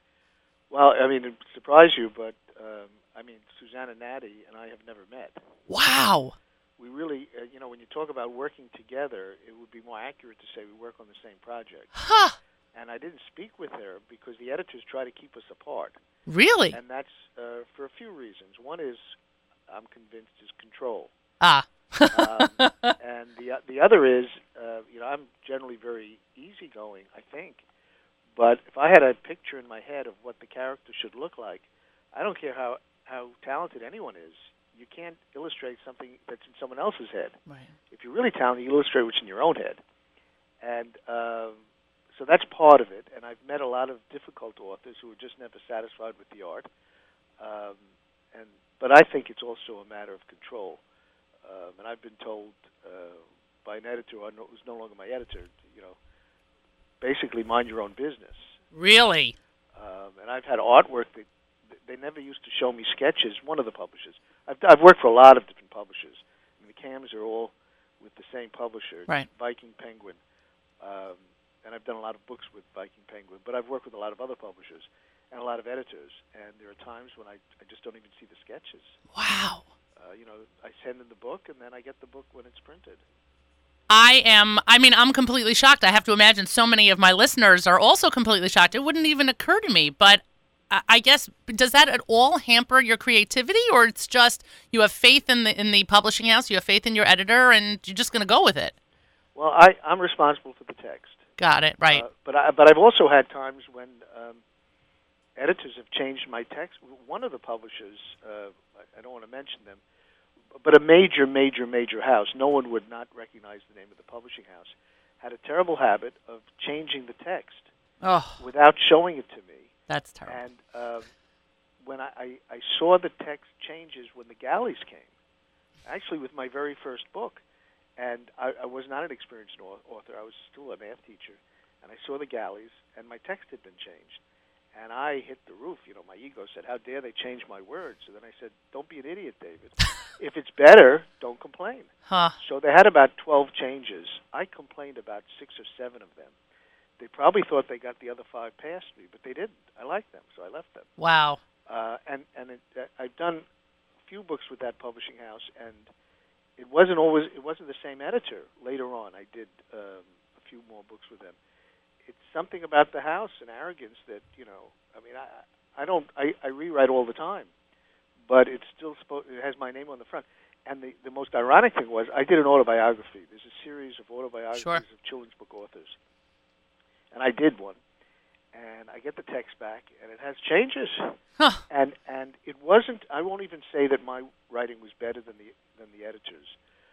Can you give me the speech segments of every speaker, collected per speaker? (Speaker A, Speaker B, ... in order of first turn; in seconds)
Speaker A: 0.7-5.4, 6.8-11.9, 12.7-15.9, 16.7-19.1, 19.7-21.1, 22.1-27.6, 28.4-37.4, 37.9-39.8, 40.6-41.6, 42.1-46.7, 47.4-47.8, 48.3-50.8, 51.4-56.0, 57.0-58.5, 59.8-61.3, 61.8-70.2, 70.8-79.0, 80.0-83.0, 99.3-101.2, 101.9-104.4, 105.4-109.8, 110.6-117.7, 118.4-119.7, 120.3-121.1, 121.8-125.1, 125.8-127.4, 128.0-134.2, 134.7-146.3, 147.0-150.9, 151.7-153.4, 154.1-155.9, 156.6-161.4, 162.0-167.5, 168.3-175.9, 177.1-177.8, 178.5-181.2, 181.7-186.6
Speaker B: 5.7-6.3, 12.0-12.3, 16.3-16.8, 21.4-22.9, 58.7-59.3, 79.1-79.6, 83.9-98.7, 101.4-102.0, 118.0-118.4, 119.9-120.4, 142.1-142.3, 151.0-151.4, 174.5-174.8